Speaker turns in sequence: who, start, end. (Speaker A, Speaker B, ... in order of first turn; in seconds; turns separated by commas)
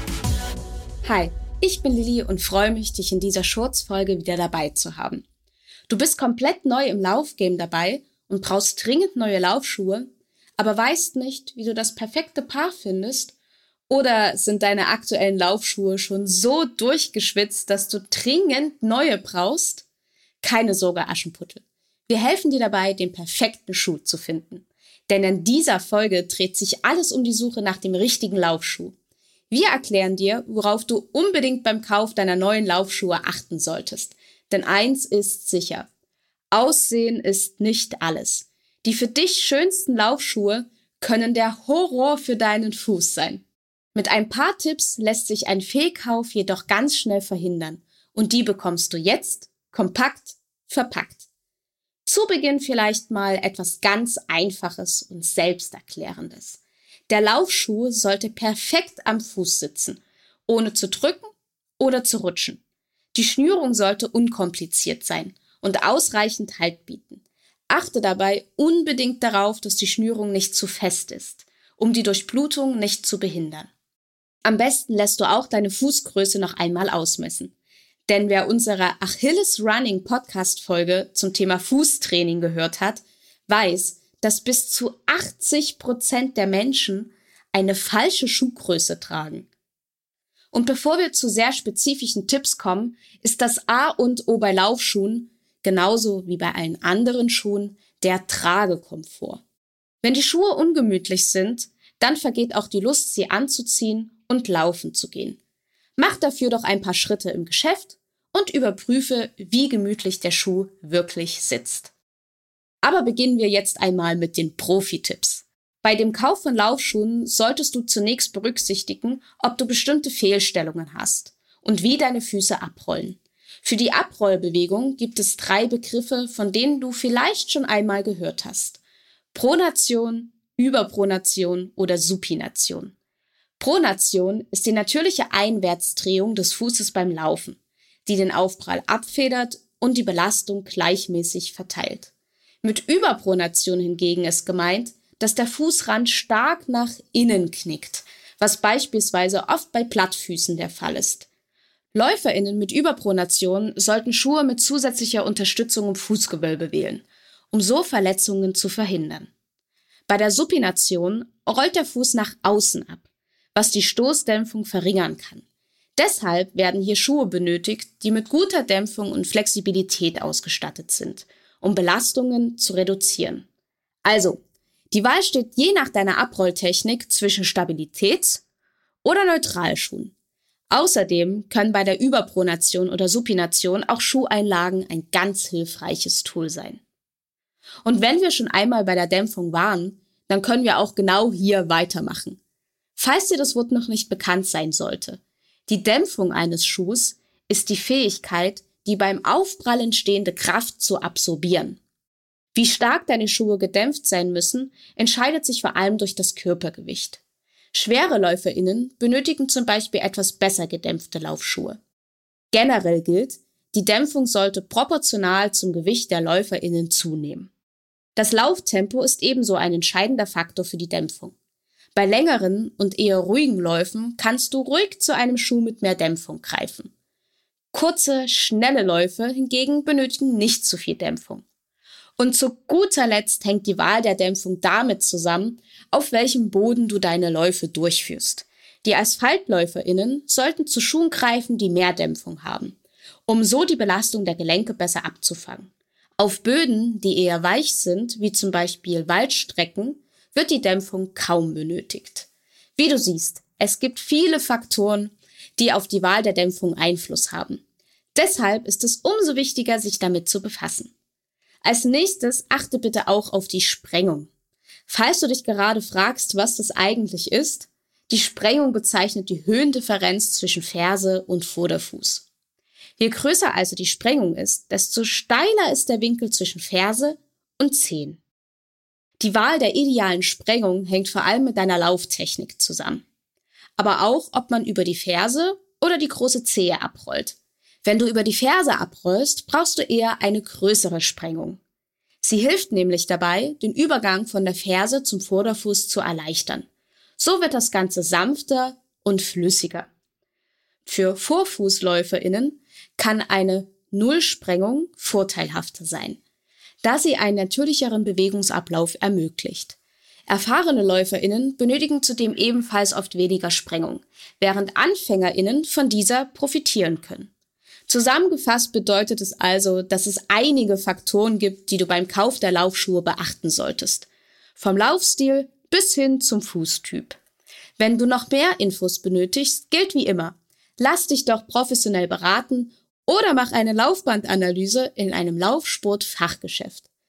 Speaker A: 1.0-5.2, Speaker A: 5.9-13.3, Speaker A: 13.9-19.8, Speaker A: 20.4-28.9, Speaker A: 29.5-35.9, Speaker A: 36.5-51.2, Speaker A: 52.0-62.6, Speaker A: 63.1-73.7, Speaker A: 74.4-77.5, Speaker A: 78.1-89.5, Speaker A: 90.5-99.4, Speaker A: 100.0-105.4, Speaker A: 106.0-111.9, Speaker A: 112.8-128.8, Speaker A: 129.3-132.9, Speaker A: 133.6-142.1, Speaker A: 142.6-151.3, Speaker A: 151.9-159.3, Speaker A: 160.1-165.4, Speaker A: 166.0-173.5, Speaker A: 174.0-178.4, Speaker A: 179.0-180.1, Speaker A: 180.7-186.8, Speaker A: 187.8-192.4, Speaker A: 192.9-201.8, Speaker A: 202.5-207.2, Speaker A: 207.7-211.8, Speaker A: 212.5-217.5, Speaker A: 218.2-221.3, Speaker A: 221.9-226.9, Speaker A: 227.7-231.4, Speaker A: 232.2-257.6, Speaker A: 258.1-260.9, Speaker A: 261.6-264.3, Speaker A: 264.9-272.2, Speaker A: 273.0-278.2, Speaker A: 279.2-283.0, Speaker A: 283.8-291.6, Speaker A: 292.2-296.7, Speaker A: 297.2-299.9, Speaker A: 300.9-306.2, Speaker A: 306.8-309.8, Speaker A: 310.3-317.3, Speaker A: 317.9-327.2, Speaker A: 327.8-336.8